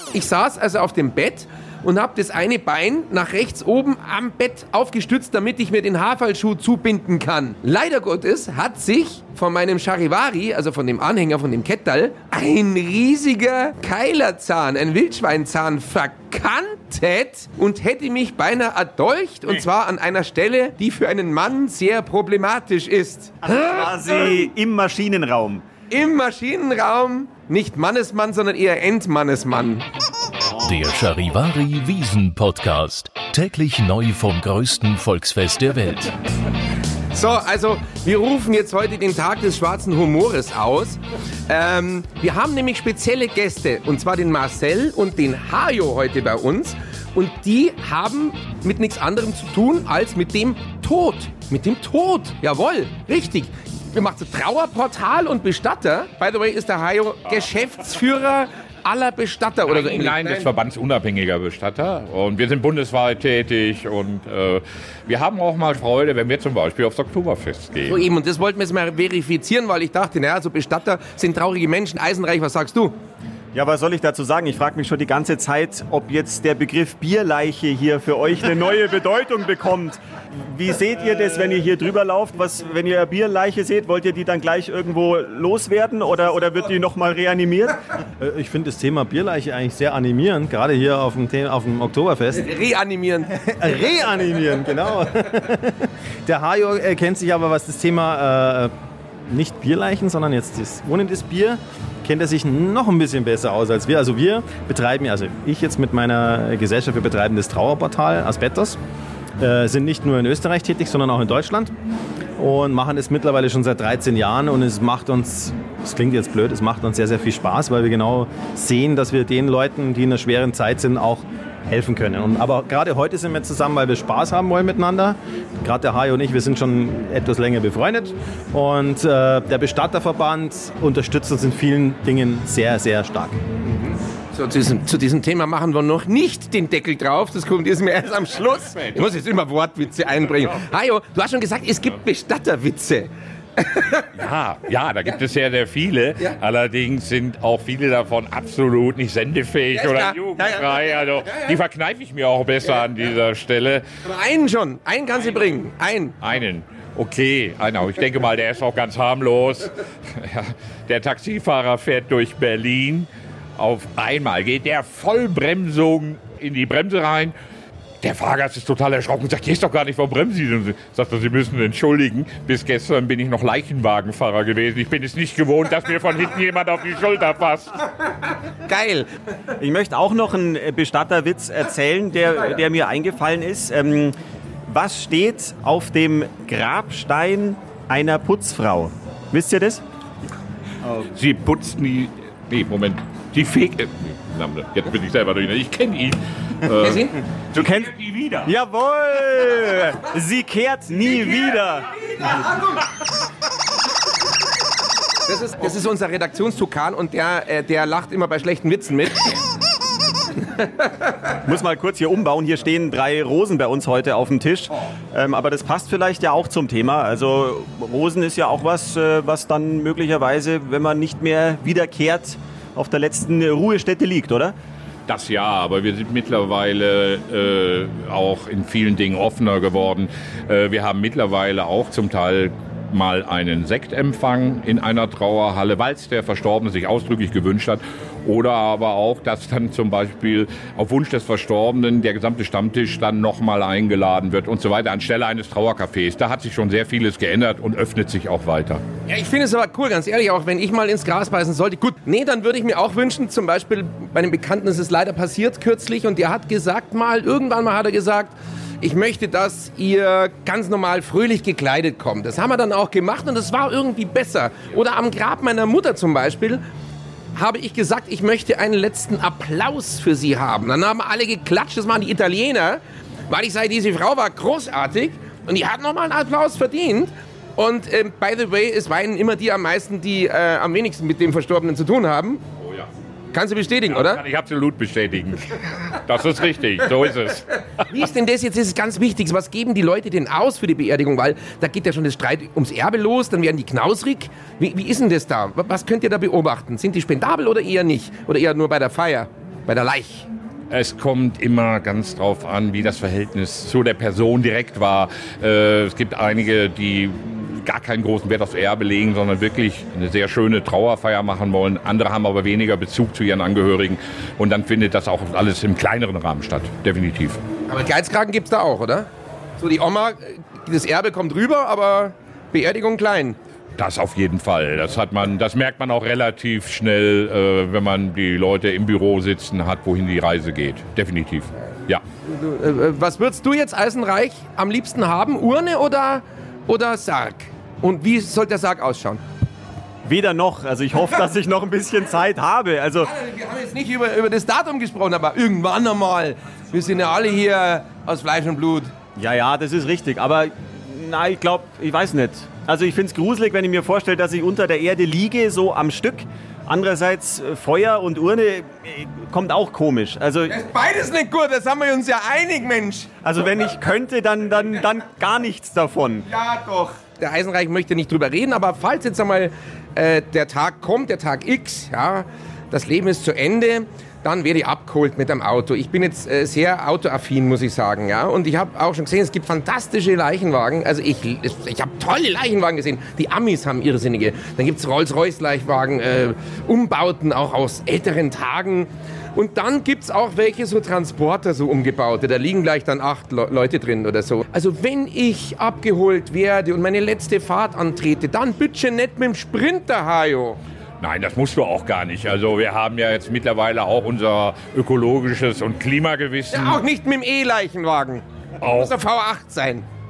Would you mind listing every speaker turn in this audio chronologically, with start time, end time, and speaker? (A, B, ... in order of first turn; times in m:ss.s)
0:00.1-0:24.4 A
0:23.4-0:25.6 B
0:25.9-0:29.9 A
0:30.6-0:36.1 C
0:37.1-1:00.5 A
0:59.7-1:08.0 D
1:07.9-1:13.0 A
1:13.5-1:27.8 B
1:28.2-1:32.5 E
1:32.3-1:33.5 A
1:33.4-1:38.7 E
1:39.2-1:48.8 E
1:49.4-1:51.8 E
1:52.4-2:13.4 E
2:13.6-2:24.1 A
2:24.2-2:33.8 D
2:29.7-2:31.6 A
2:34.0-2:36.2 A
2:36.2-2:47.4 D
2:48.0-2:57.8 D
2:58.7-2:59.1 A
2:59.6-3:04.2 B
3:04.7-3:09.8 B
3:11.1-3:18.5 D
3:16.8-3:17.2 A
3:17.6-3:17.9 B
3:18.4-3:21.9 B
3:22.2-3:22.5 A
3:25.3-3:29.4 A
3:30.5-3:31.0 A
3:31.4-3:44.6 B
3:45.1-4:08.8 D
4:09.1-4:26.6 A
4:27.4-4:42.4 A
4:42.6-4:42.9 D
4:43.3-4:44.2 A
4:43.9-4:47.9 D
4:47.9-5:00.3 A
5:00.7-5:17.4 D
5:17.7-5:19.1 A
5:19.6-5:23.4 A
5:23.8-5:32.0 D
5:32.3-5:39.2 A
5:40.0-5:43.1 B
5:43.1-5:48.9 A
5:49.2-6:00.6 B
6:00.5-6:03.1 A
6:03.2-6:06.3 B
6:06.3-6:40.6 A
6:41.0-6:46.8 D
6:46.5-6:49.9 A
6:48.6-6:48.9 D